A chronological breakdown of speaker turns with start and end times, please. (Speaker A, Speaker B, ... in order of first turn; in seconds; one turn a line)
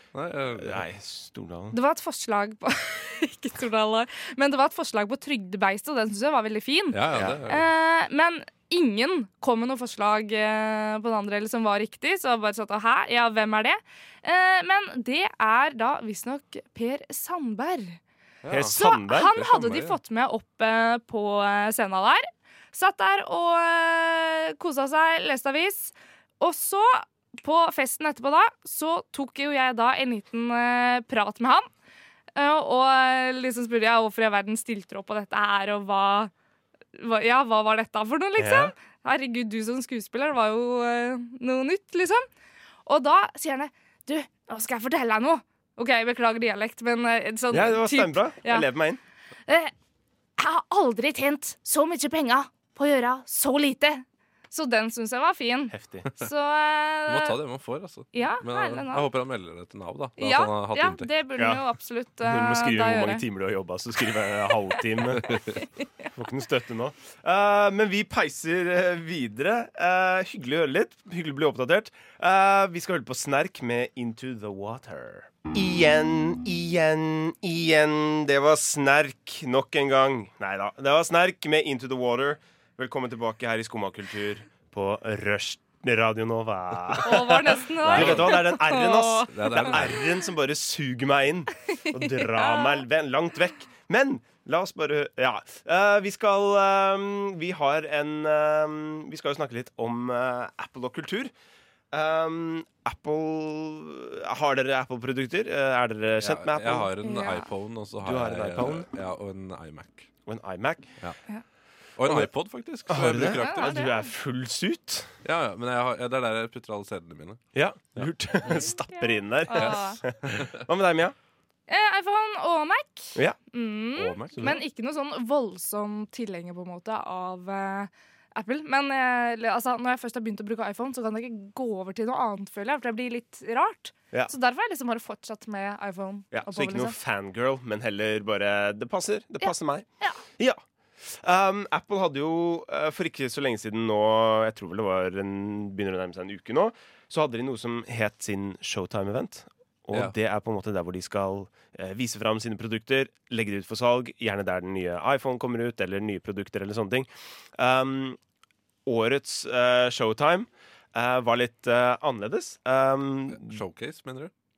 Speaker A: 0.1-0.9
Speaker B: 0.6-1.8
Speaker C: 1.7-18.0
Speaker A: 6.9-7.7
Speaker B: 7.1-7.4
Speaker A: 18.4-20.0
Speaker B: 18.5-19.3
Speaker C: 18.7-31.7
Speaker C: 32.4-36.3
Speaker C: 36.9-42.3
Speaker B: 38.4-38.7
Speaker C: 42.9-48.7
Speaker B: 47.5-49.0
Speaker C: 49.5-49.7
Speaker C: 50.4-57.4
Speaker B: 55.7-56.1
Speaker A: 57.1-61.1
Speaker C: 58.1-59.1
Speaker C: 60.2-63.2
Speaker B: 61.4-61.6
Speaker B: 62.2-65.4
Speaker A: 65.2-65.5
Speaker C: 65.3-66.1
Speaker B: 66.1-101.3
Speaker C: 87.0-89.8
Speaker A: 87.8-88.6
Speaker A: 89.3-90.0
Speaker C: 91.8-92.8
Speaker B: 101.9-106.9
Speaker A: 106.2-110.1
Speaker C: 107.0-107.5
Speaker B: 108.0-108.9
Speaker B: 110.3-111.0
Speaker A: 112.0-113.9
Speaker B: 112.0-112.3
Speaker B: 112.9-115.1
Speaker C: 113.2-114.1
Speaker A: 115.2-117.4
Speaker B: 117.5-121.2
Speaker C: 118.5-120.0
Speaker A: 119.5-120.5
Speaker C: 121.7-137.0
Speaker A: 124.0-124.6
Speaker B: 136.3-158.2
Speaker C: 139.4-140.2
Speaker B: 158.9-163.6
Speaker A: 163.3-164.3